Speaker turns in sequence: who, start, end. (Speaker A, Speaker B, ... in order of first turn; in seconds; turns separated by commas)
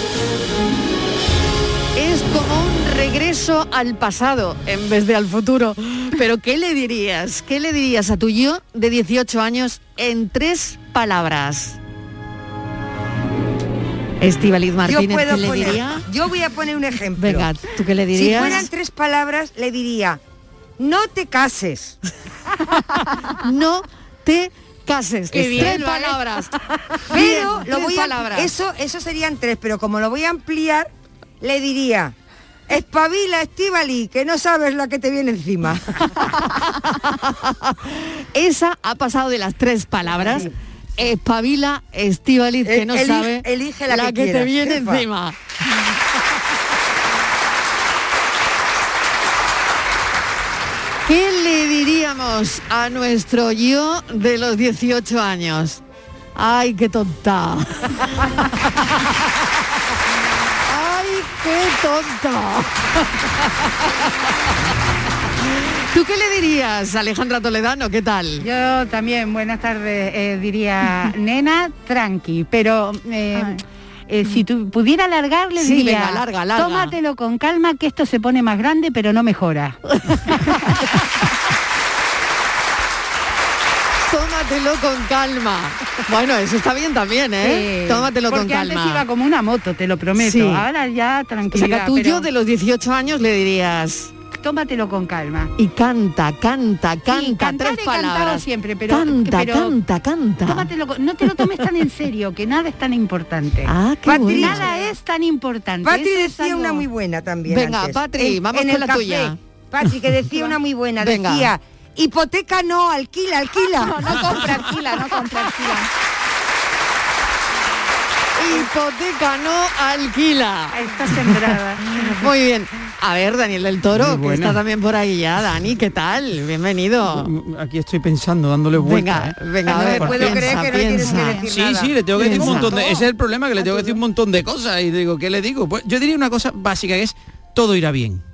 Speaker A: 1.9-11.8, Speaker A: 14.2-16.0, Speaker B: 14.8-17.5, Speaker A: 17.2-18.7, Speaker B: 18.1-20.2, Speaker B: 20.8-22.0, Speaker A: 23.3-26.5, Speaker C: 25.3-26.5, Speaker A: 27.1-28.5, Speaker B: 27.1-30.9, Speaker B: 31.4-32.1, Speaker B: 32.7-36.1, Speaker A: 36.2-45.4, Speaker B: 42.6-45.0, Speaker A: 51.0-55.8, Speaker A: 56.3-58.1, Speaker A: 60.6-62.8, Speaker A: 65.3-68.5, Speaker C: 68.4-80.5, Speaker A: 75.6-77.0, Speaker A: 80.1-80.5, Speaker A: 84.0-89.0, Speaker C: 87.4-92.3, Speaker A: 90.2-90.7, Speaker A: 91.5-94.1, Speaker C: 94.3-95.5, Speaker A: 95.5-100.7, Speaker C: 97.1-99.7, Speaker C: 100.4-103.7, Speaker A: 101.3-101.5, Speaker A: 103.6-104.7, Speaker B: 104.0-104.7, Speaker C: 104.3-106.8, Speaker B: 105.8-114.5, Speaker A: 107.5-109.4, Speaker A: 111.0-111.5, Speaker D: 113.7-115.9, Speaker A: 118.3-127.3, Speaker C: 120.7-121.9, Speaker E: 123.9-124.6, Speaker E: 127.0-138.2, Speaker A: 128.8-131.5, Speaker B: 129.7-132.7, Speaker A: 132.2-132.8